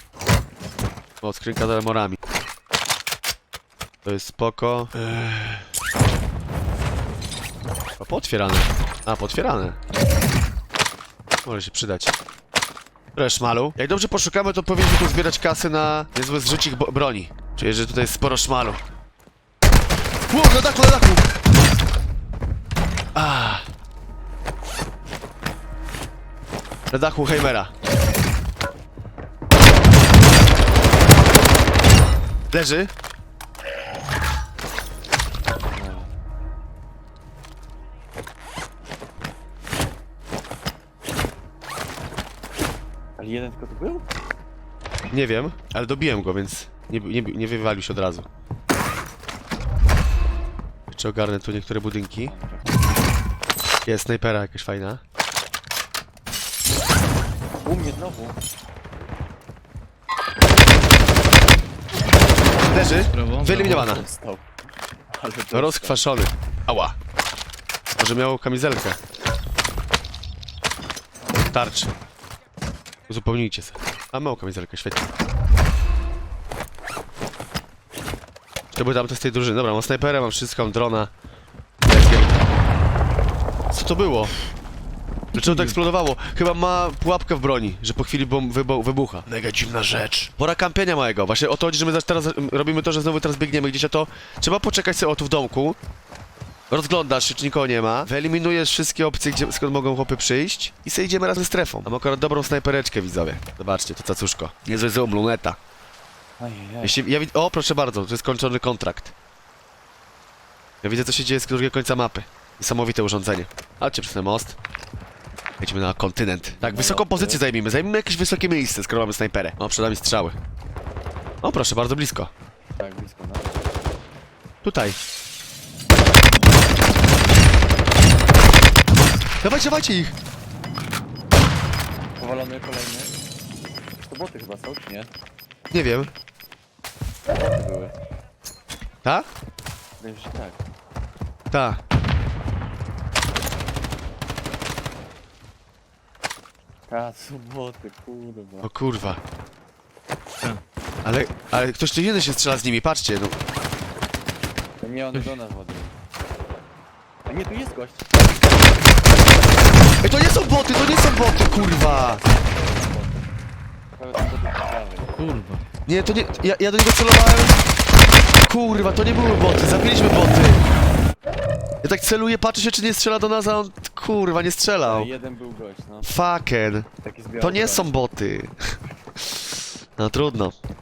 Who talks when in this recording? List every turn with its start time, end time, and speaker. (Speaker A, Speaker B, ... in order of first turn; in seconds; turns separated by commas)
Speaker A: 1.2-2.2, Speaker A: 4.0-5.6, Speaker A: 8.0-9.8, Speaker A: 11.4-12.1, Speaker A: 13.2-18.8, Speaker A: 20.3-21.2, Speaker A: 23.1-23.6, Speaker A: 26.9-27.7, Speaker A: 32.5-32.9, Speaker B: 35.7-36.1, Speaker B: 43.2-44.1, Speaker A: 45.1-48.3, Speaker A: 50.9-52.3, Speaker B: 52.2-52.8, Speaker A: 53.9-55.0, Speaker B: 57.6-58.4, Speaker A: 62.7-64.0, Speaker C: 62.9-64.0, Speaker B: 63.5-64.5, Speaker B: 65.1-66.1, Speaker A: 65.5-67.0, Speaker A: 68.0-69.0, Speaker A: 71.5-71.9, Speaker A: 73.1-75.0, Speaker A: 78.7-81.1, Speaker A: 81.8-82.4, Speaker A: 83.7-84.3, Speaker C: 85.3-85.8, Speaker A: 85.3-95.8, Speaker A: 96.7-105.6, Speaker B: 106.4-107.0, Speaker A: 106.8-109.1, Speaker A: 110.8-114.6, Speaker A: 115.6-120.3, Speaker B: 116.5-117.5, Speaker A: 121.4-122.3, Speaker B: 122.8-123.5, Speaker A: 124.6-125.0, Speaker A: 129.4-130.1, Speaker B: 132.1-133.1, Speaker B: 134.0-135.1, Speaker A: 135.7-136.1, Speaker B: 137.3-137.9, Speaker B: 140.0-140.6, Speaker A: 141.5-141.8, Speaker B: 146.9-148.7, Speaker A: 148.6-149.2, Speaker A: 151.0-153.4, Speaker B: 154.8-155.9, Speaker B: 157.2-158.1, Speaker A: 160.0-162.2, Speaker B: 161.3-163.2, Speaker B: 163.9-165.2, Speaker C: 165.2-165.6, Speaker A: 165.8-167.6, Speaker A: 168.4-170.7, Speaker A: 171.8-175.1, Speaker B: 174.8-176.2, Speaker A: 176.0-176.9, Speaker B: 177.0-178.0, Speaker A: 177.4-178.5, Speaker A: 179.2-180.6